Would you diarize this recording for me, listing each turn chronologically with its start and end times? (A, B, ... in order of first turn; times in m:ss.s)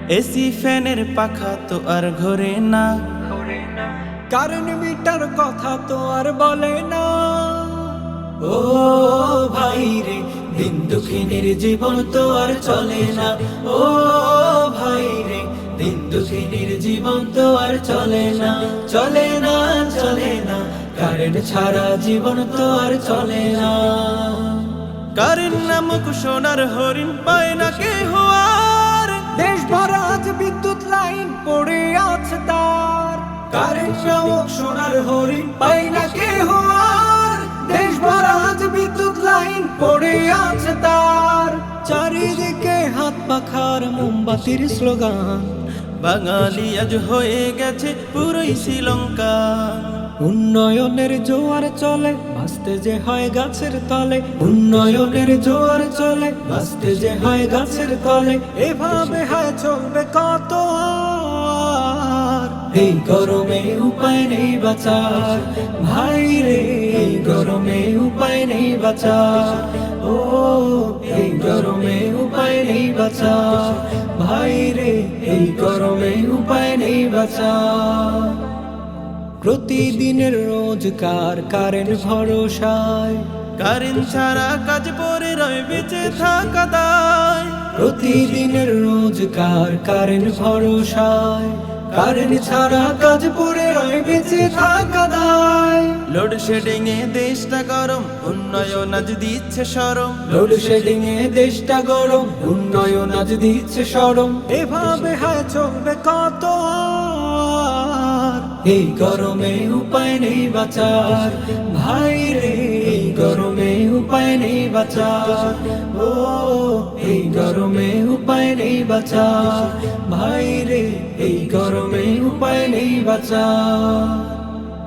0:00.1-0:02.9 A
0:03.2-0:24.8 B
0:25.2-0:29.3 A
0:29.3-0:45.6 B
0:46.0-0:50.1 A
0:50.2-1:18.4 B
1:19.4-1:23.3 B
1:23.6-1:27.7 A
1:27.7-1:36.0 B
1:36.1-1:40.2 A
1:40.3-2:04.4 B